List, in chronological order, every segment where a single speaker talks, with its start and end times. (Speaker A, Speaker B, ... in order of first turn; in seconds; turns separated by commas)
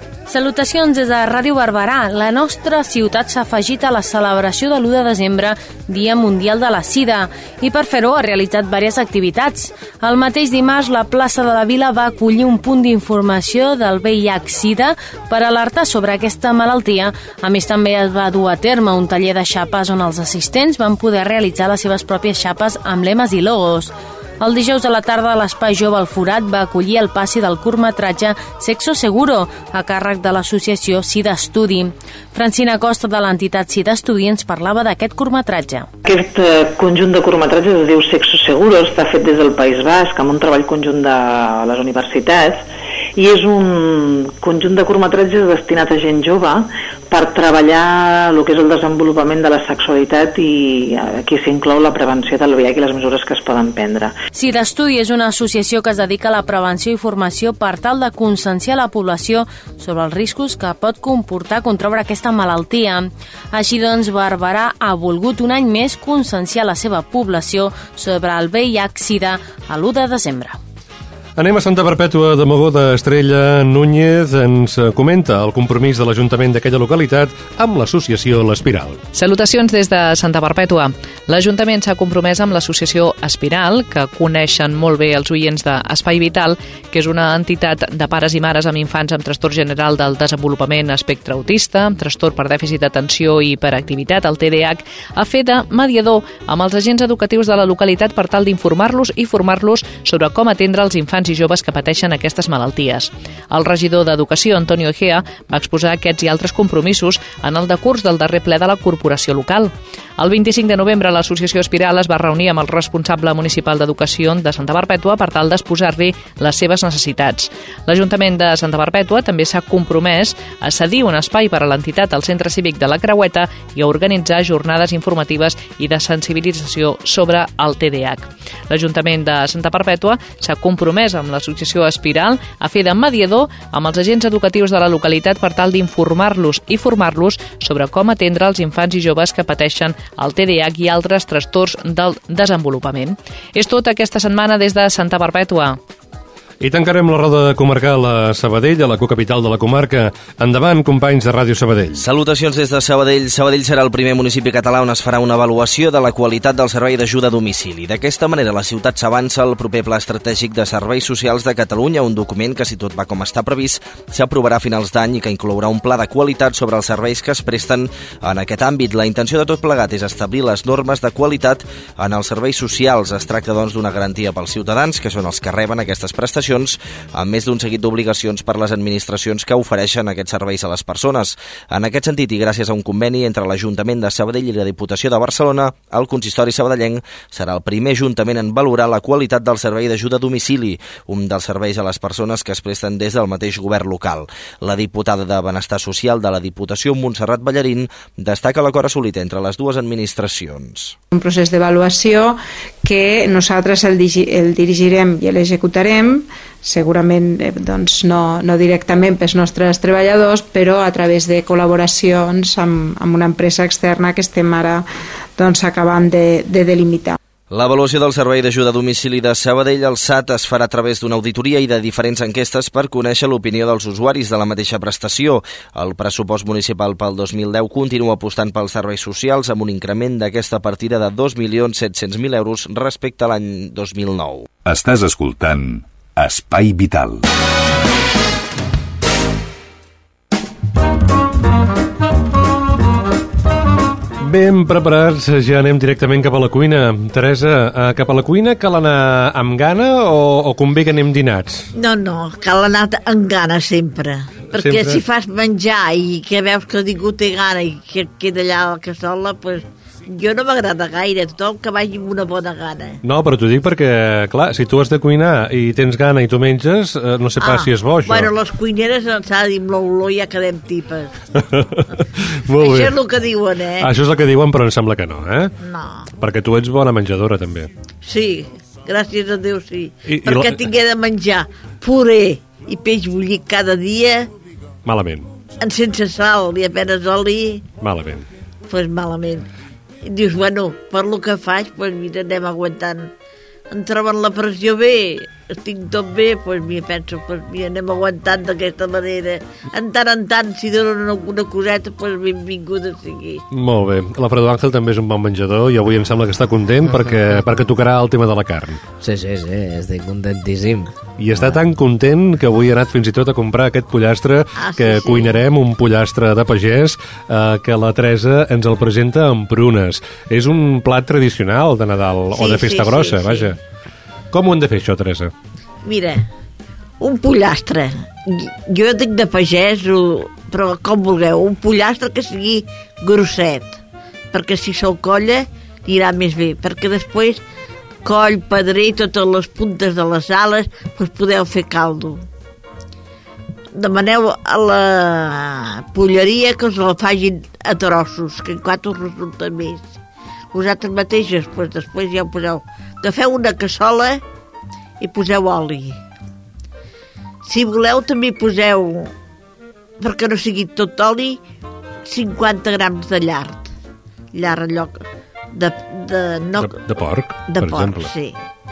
Speaker A: 0.3-35.9, Speaker B: 36.0-42.6, Speaker B: 43.1-54.1, Speaker A: 54.3-70.6, Speaker C: 71.4-79.0, Speaker D: 79.1-145.8, Speaker C: 146.6-152.0, Speaker E: 151.9-201.0, Speaker F: 201.1-214.8, Speaker F: 215.4-217.2, Speaker E: 217.5-234.5, Speaker G: 234.6-237.2, Speaker C: 244.2-251.7, Speaker H: 251.7-263.0, Speaker C: 254.6-255.0, Speaker C: 263.0-268.3, Speaker H: 267.4-271.1, Speaker C: 271.5-273.0, Speaker H: 272.6-273.9, Speaker C: 273.8-275.5, Speaker H: 275.6-276.1, Speaker C: 276.2-277.7, Speaker H: 278.0-284.3, Speaker C: 280.1-280.6, Speaker C: 284.8-285.3, Speaker H: 285.6-287.6, Speaker C: 287.8-288.2, Speaker H: 288.7-289.5, Speaker H: 290.0-293.1, Speaker H: 293.7-303.4, Speaker C: 303.5-308.8, Speaker I: 306.9-307.4, Speaker I: 309.0-311.6, Speaker C: 311.2-323.6, Speaker H: 314.6-315.4, Speaker H: 322.3-323.5, Speaker C: 324.3-325.3, Speaker H: 325.8-326.2, Speaker H: 327.0-333.8, Speaker H: 334.3-337.4, Speaker H: 338.0-342.2, Speaker H: 343.7-349.9, Speaker H: 350.5-354.2, Speaker H: 355.0-356.0, Speaker H: 357.4-359.1, Speaker H: 360.0-361.4, Speaker H: 362.0-363.7, Speaker H: 364.3-366.8, Speaker C: 366.6-368.1, Speaker H: 367.5-368.4